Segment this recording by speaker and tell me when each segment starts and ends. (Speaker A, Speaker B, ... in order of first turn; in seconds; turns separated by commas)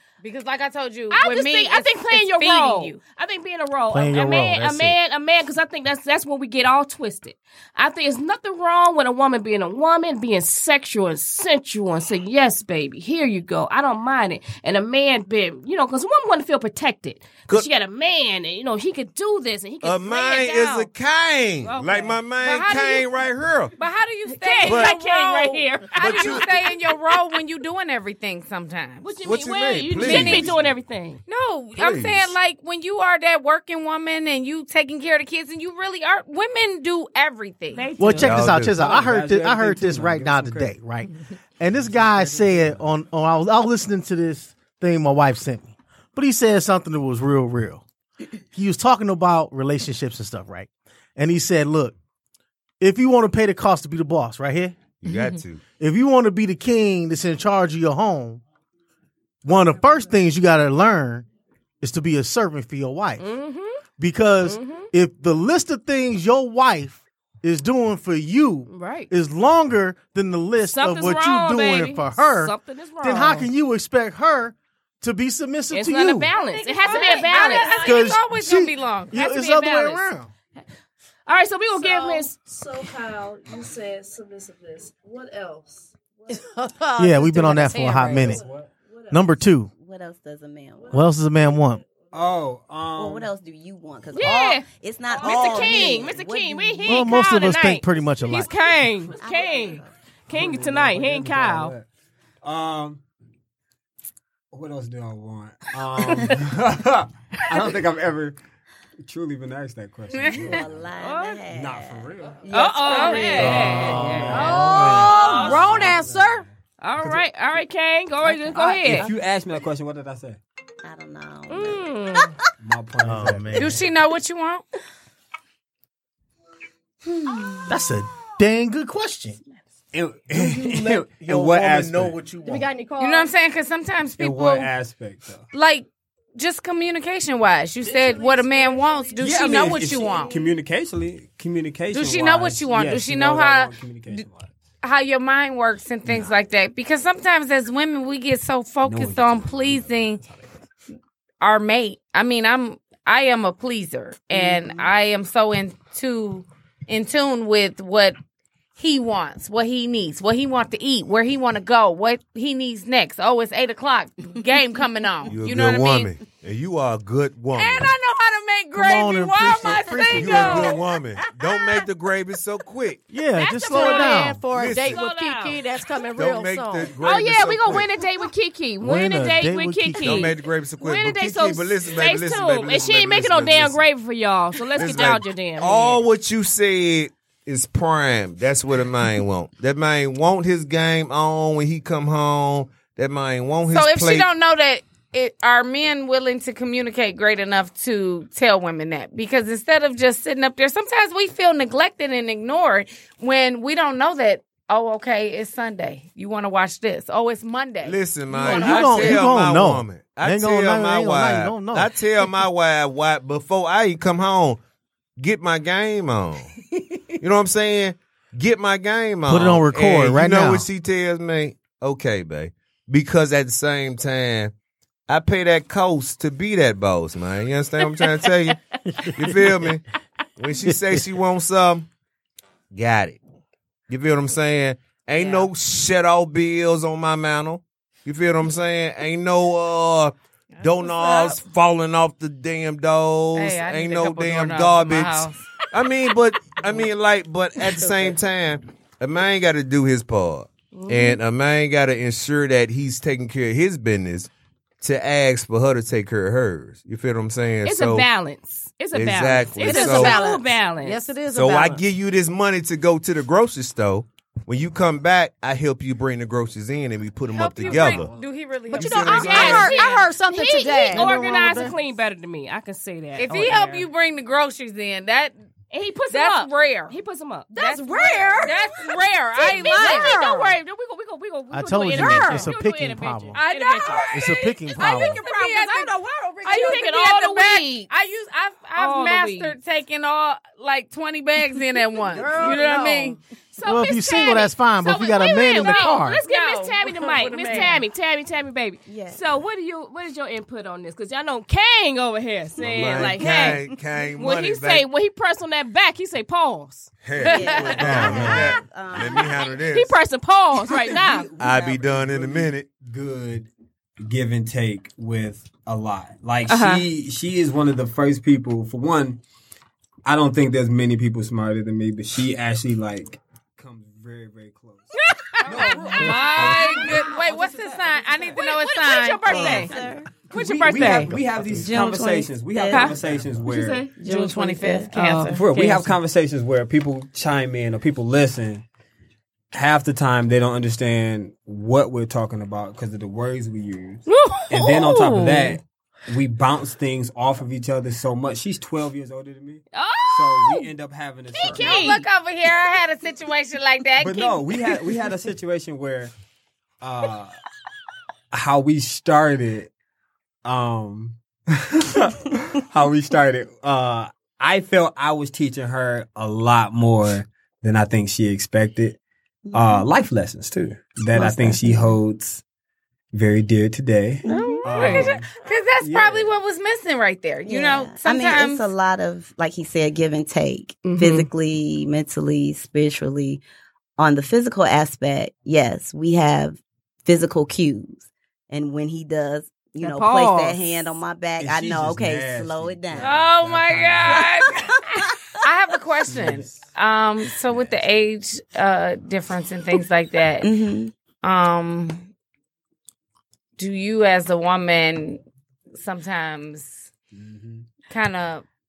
Speaker A: 0.2-3.0, Speaker B: 1.1-20.9, Speaker C: 3.9-5.0, Speaker D: 19.8-23.7, Speaker B: 21.6-22.2, Speaker A: 22.4-23.1, Speaker A: 23.8-29.1, Speaker B: 24.3-27.1, Speaker D: 24.6-24.9, Speaker D: 25.9-26.5, Speaker B: 29.0-31.2, Speaker D: 29.2-30.7, Speaker A: 30.0-30.6, Speaker A: 31.3-37.9, Speaker D: 31.8-32.3, Speaker B: 37.7-38.4, Speaker C: 38.0-47.8, Speaker D: 38.2-38.8, Speaker E: 38.7-40.8, Speaker E: 41.6-42.9, Speaker C: 48.5-51.9, Speaker C: 52.8-54.8, Speaker D: 55.0-55.6, Speaker A: 55.1-55.4, Speaker C: 55.8-58.4, Speaker C: 59.4-61.2, Speaker C: 61.8-63.2, Speaker B: 63.2-63.8, Speaker C: 64.0-76.3, Speaker B: 64.4-64.9, Speaker B: 68.7-69.1, Speaker B: 70.6-73.5, Speaker B: 75.7-77.8, Speaker F: 76.5-78.1, Speaker A: 76.6-79.2, Speaker C: 77.7-80.3, Speaker B: 79.1-80.1, Speaker B: 81.3-82.4, Speaker F: 81.8-86.4, Speaker G: 86.3-88.4, Speaker C: 87.0-88.4, Speaker F: 88.1-89.5, Speaker E: 88.2-88.7, Speaker C: 89.1-89.7, Speaker H: 89.7-90.9, Speaker F: 90.8-92.4, Speaker C: 90.9-91.8, Speaker E: 92.1-93.3, Speaker H: 93.0-97.1, Speaker B: 94.1-94.7, Speaker F: 95.0-96.2, Speaker B: 95.2-101.7, Speaker C: 96.8-98.5, Speaker F: 99.1-99.8, Speaker H: 99.2-99.9, Speaker E: 100.3-101.9, Speaker E: 102.4-103.0, Speaker E: 104.5-108.4, Speaker E: 109.0-110.9, Speaker A: 110.1-110.6, Speaker H: 110.3-113.8, Speaker B: 111.0-111.4, Speaker E: 111.5-112.4, Speaker B: 112.5-115.7, Speaker A: 112.8-113.8, Speaker E: 113.3-116.5, Speaker C: 114.2-115.1, Speaker G: 114.3-116.5, Speaker B: 116.8-119.1, Speaker A: 118.6-119.1, Speaker E: 118.9-120.4, Speaker H: 120.8-122.2, Speaker B: 121.5-122.3, Speaker E: 122.6-123.8, Speaker C: 123.0-123.8, Speaker A: 123.5-124.6, Speaker C: 127.7-129.4, Speaker E: 129.9-132.2, Speaker C: 130.3-132.7, Speaker G: 132.4-133.3, Speaker A: 133.0-134.7, Speaker E: 134.2-135.5, Speaker A: 135.5-140.4, Speaker F: 137.8-140.5, Speaker E: 139.2-144.5, Speaker A: 141.9-144.2, Speaker A: 144.8-150.2, Speaker E: 148.8-150.6, Speaker A: 151.4-158.2, Speaker A: 158.8-166.1, Speaker D: 165.3-167.9, Speaker A: 167.6-170.8, Speaker C: 168.7-170.7, Speaker D: 170.1-173.0, Speaker C: 173.1-174.4, Speaker B: 173.4-175.6, Speaker G: 173.7-176.9, Speaker D: 174.5-175.0, Speaker D: 176.1-177.9, Speaker B: 177.0-186.0, Speaker C: 178.8-180.3, Speaker D: 180.0-183.8, Speaker D: 184.7-194.3, Speaker A: 193.7-209.2, Speaker D: 207.8-214.6, Speaker C: 208.4-211.9, Speaker D: 215.2-216.5, Speaker D: 217.2-224.5, Speaker C: 219.3-220.7, Speaker D: 225.1-228.6, Speaker C: 228.9-229.8, Speaker D: 229.1-229.8, Speaker D: 230.4-231.9, Speaker C: 230.6-231.0, Speaker D: 232.7-233.2, Speaker D: 233.9-254.3, Speaker A: 235.2-235.5, Speaker A: 240.6-241.4, Speaker A: 243.3-245.4, Speaker B: 250.7-251.2, Speaker D: 254.8-258.1, Speaker B: 257.6-261.0, Speaker D: 258.9-260.2, Speaker G: 259.6-261.8, Speaker D: 261.3-268.1, Speaker A: 267.3-270.1, Speaker E: 267.6-268.3, Speaker G: 268.7-271.3, Speaker D: 268.7-269.8, Speaker B: 269.0-273.9, Speaker C: 270.9-271.8, Speaker A: 273.2-275.3, Speaker B: 275.7-277.5, Speaker A: 276.1-276.9, Speaker G: 277.5-278.6, Speaker A: 277.6-280.3, Speaker B: 279.4-284.1, Speaker G: 279.4-280.4, Speaker C: 281.5-283.4, Speaker G: 282.0-282.4, Speaker A: 282.0-282.4, Speaker A: 283.3-293.2, Speaker C: 284.1-285.2, Speaker G: 284.7-286.9, Speaker B: 286.5-287.9, Speaker B: 288.8-289.5, Speaker G: 292.1-293.1, Speaker B: 292.1-303.6, Speaker C: 293.6-296.2, Speaker A: 295.5-297.8, Speaker H: 298.9-299.2, Speaker D: 302.6-304.9, Speaker B: 304.2-306.9, Speaker D: 307.0-310.0, Speaker A: 307.2-307.9, Speaker H: 307.2-309.5, Speaker B: 307.6-308.4, Speaker C: 307.8-308.5, Speaker B: 309.7-311.3, Speaker E: 310.9-319.2, Speaker D: 311.4-312.7, Speaker B: 316.5-316.9, Speaker E: 320.0-324.9, Speaker B: 325.1-327.1, Speaker E: 325.4-328.4, Speaker A: 325.5-329.8, Speaker B: 328.4-331.1, Speaker H: 329.2-330.1, Speaker E: 330.2-333.9, Speaker H: 331.5-333.0, Speaker B: 332.7-333.9, Speaker H: 333.9-334.9, Speaker A: 334.0-335.4, Speaker B: 334.9-335.9, Speaker E: 335.3-338.6, Speaker E: 339.5-351.9, Speaker B: 344.1-345.6, Speaker A: 344.5-345.3, Speaker B: 349.7-350.7, Speaker A: 351.3-354.8, Speaker B: 351.4-352.1, Speaker E: 354.0-356.1, Speaker E: 356.8-357.4, Speaker E: 358.3-359.7, Speaker E: 360.4-369.0, Speaker H: 369.4-369.9, Speaker E: 369.5-372.4, Speaker E: 373.1-376.3, Speaker H: 374.3-374.6, Speaker B: 374.3-375.1, Speaker A: 374.7-378.7, Speaker H: 377.4-383.4, Speaker G: 380.8-381.2, Speaker H: 384.0-393.2, Speaker B: 389.8-390.6, Speaker E: 391.4-394.3, Speaker A: 393.0-400.5, Speaker H: 394.1-395.4, Speaker E: 396.1-396.6, Speaker E: 397.5-397.8, Speaker H: 400.4-400.9, Speaker A: 401.2-402.1, Speaker A: 403.6-405.2, Speaker A: 405.7-406.9, Speaker E: 407.1-407.7, Speaker A: 407.8-408.4